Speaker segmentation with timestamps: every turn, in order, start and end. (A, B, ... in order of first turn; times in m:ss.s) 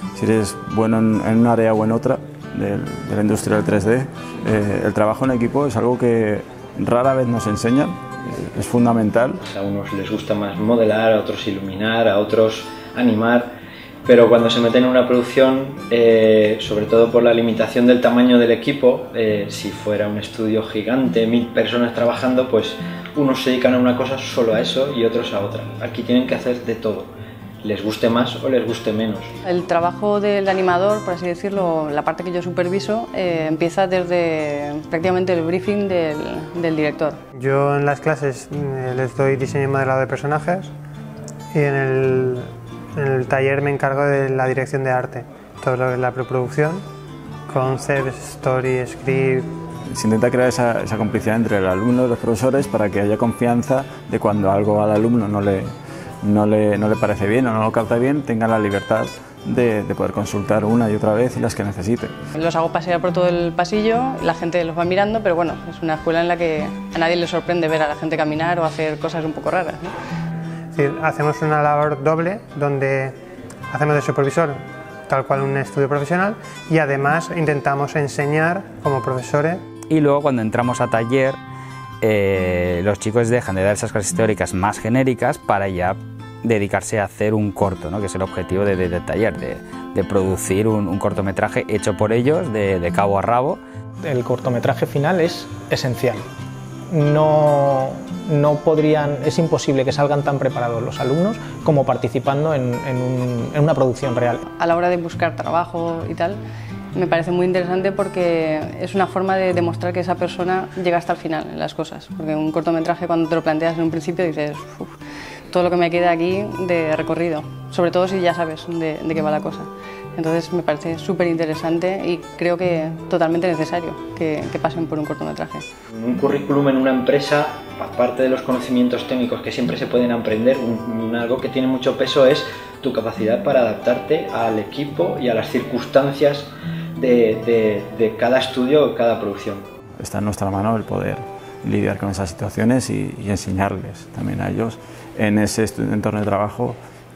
0:00.2-0:09.4 A
0:09.4-0:13.5 B
0:14.0-0:27.1 B
0:27.6-0:29.3 B
0:29.4-0:37.2 C
0:37.4-0:40.7 D
0:41.5-0:46.8 D
0:47.5-0:49.4 D
0:49.9-0:55.7 A
0:56.2-1:02.1 A
1:02.3-1:09.9 C
1:10.7-1:13.1 D
1:13.7-1:19.6 D
1:19.9-1:21.4 E
1:22.0-1:33.6 E
1:34.0-1:36.2 F
1:36.9-1:44.4 F
1:44.5-1:46.4 C
1:46.9-1:55.0 C
1:55.5-2:05.6 C
2:05.9-2:19.6 B
2:20.0-2:26.8 A